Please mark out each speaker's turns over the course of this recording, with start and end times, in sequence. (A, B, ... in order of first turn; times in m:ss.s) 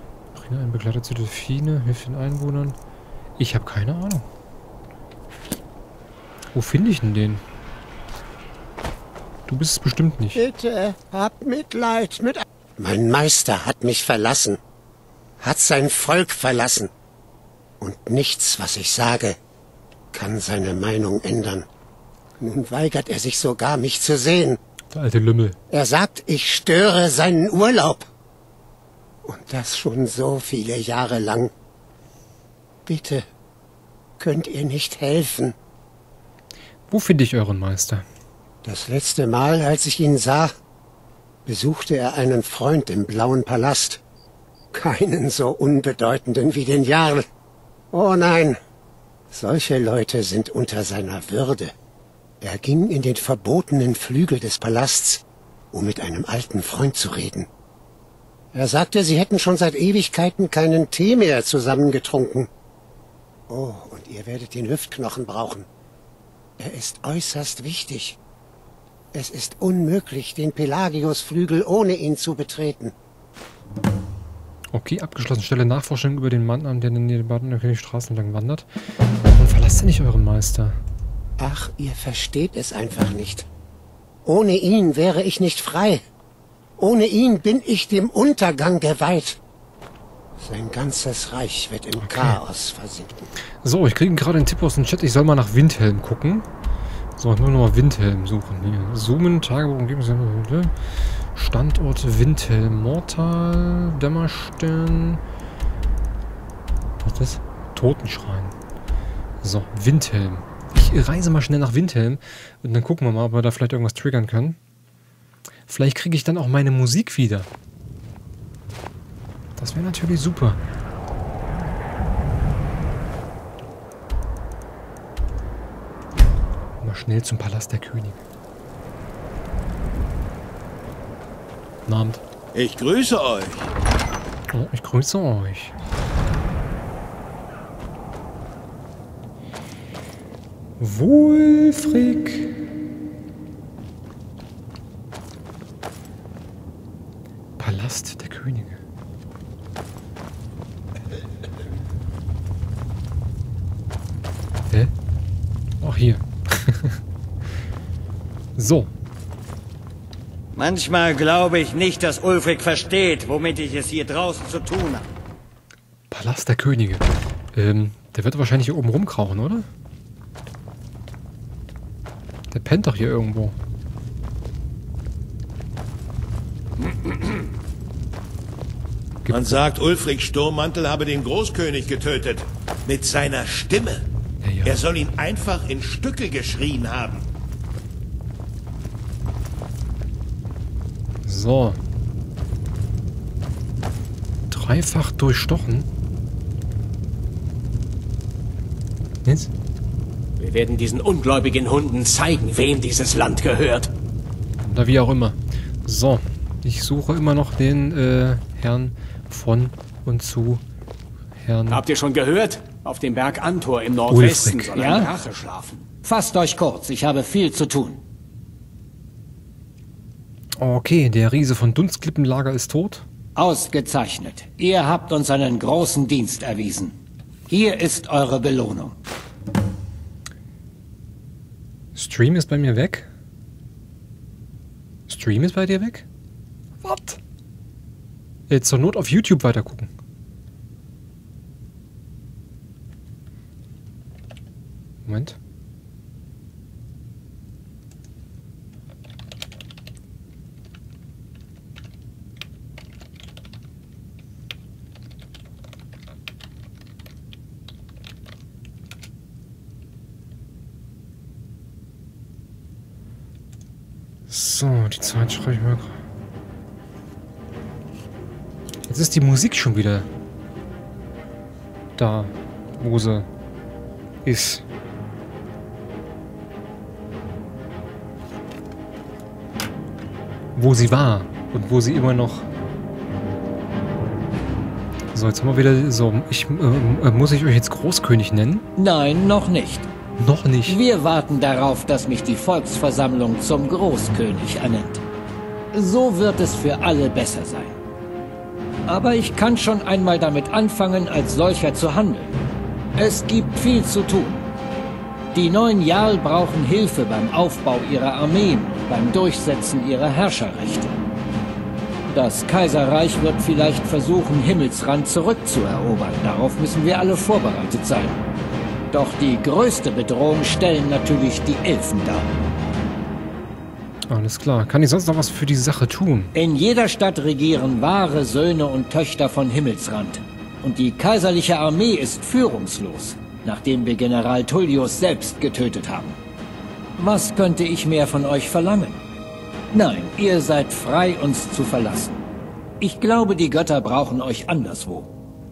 0:00.3-0:02.8 A
0:03.4-0:04.2 A
0:06.5-0:07.4 A
0:09.5-0:10.4 A
0:10.4-0:14.6 B
0:15.4-0:16.9 B
0:17.8-0:19.4 B
0:20.1-0:21.6 B
0:22.4-0:24.6 B
0:24.9-0:25.6 A
0:25.7-0:28.1 B
0:29.2-0:31.5 B
0:32.8-0:33.2 B
0:34.2-0:35.5 B
0:36.9-0:38.0 A
0:38.6-0:40.5 B
0:41.4-0:44.0 B
0:44.7-0:47.2 B
0:47.9-0:48.6 B
0:49.3-0:51.7 B
0:52.4-0:57.5 B
0:58.5-1:02.5 B
1:03.5-1:05.6 B
1:06.6-1:08.2 B
1:09.1-1:12.9 B
1:14.7-1:18.6 A
1:19.2-1:20.8 A
1:21.4-1:23.5 B
1:24.2-1:26.0 B
1:26.8-1:29.4 B
1:30.4-1:33.3 B
1:32.0-1:32.4 A
1:33.6-1:36.4 A
1:37.2-1:45.2 A
1:47.0-1:48.5 A
1:49.4-1:54.6 A
1:55.7-1:57.5 A
1:59.6-2:00.6 A
2:06.8-2:08.2 A
2:11.9-2:12.2 A
2:12.5-2:13.7 C
2:14.5-2:15.7 A
2:20.8-2:22.7 A
2:27.6-2:28.8 A
2:35.8-2:37.0 A
2:38.6-2:38.9 A
2:40.5-2:45.0 D
2:46.1-2:49.7 A
2:52.5-2:53.6 A
2:59.2-2:59.6 A
2:59.3-3:04.0 C
3:04.4-3:04.8 A
3:04.6-3:07.2 C
3:11.2-3:11.8 A
3:14.5-3:15.9 A
3:19.2-3:19.5 A
3:20.4-3:23.9 E
3:24.6-3:30.6 A
3:31.4-3:31.8 A
3:31.7-3:35.8 E
3:34.1-3:34.7 A
3:34.7-3:35.1 F
3:36.0-3:38.0 F
3:40.6-3:43.0 A
3:43.4-3:46.9 F
3:47.5-3:49.0 F
3:51.9-3:53.1 A
3:55.1-3:56.0 A
3:56.8-3:57.2 A
3:58.5-3:59.9 A
4:05.0-4:05.4 A
4:24.3-4:26.0 A
4:28.9-4:30.1 A
4:32.0-4:33.3 A
4:34.2-4:34.6 A
4:40.5-4:42.4 A
4:45.1-4:48.6 A
4:48.8-4:49.9 F
4:50.2-4:50.8 A
4:50.7-4:55.0 F
4:55.7-4:57.7 F
4:58.9-5:02.3 F
5:03.0-5:04.4 F
5:05.3-5:10.9 F
5:12.1-5:18.2 F
5:18.9-5:22.3 F
5:24.1-5:26.3 A
5:26.3-5:36.2 F
5:37.0-5:39.0 F
5:39.7-5:42.2 F
5:42.8-5:45.1 F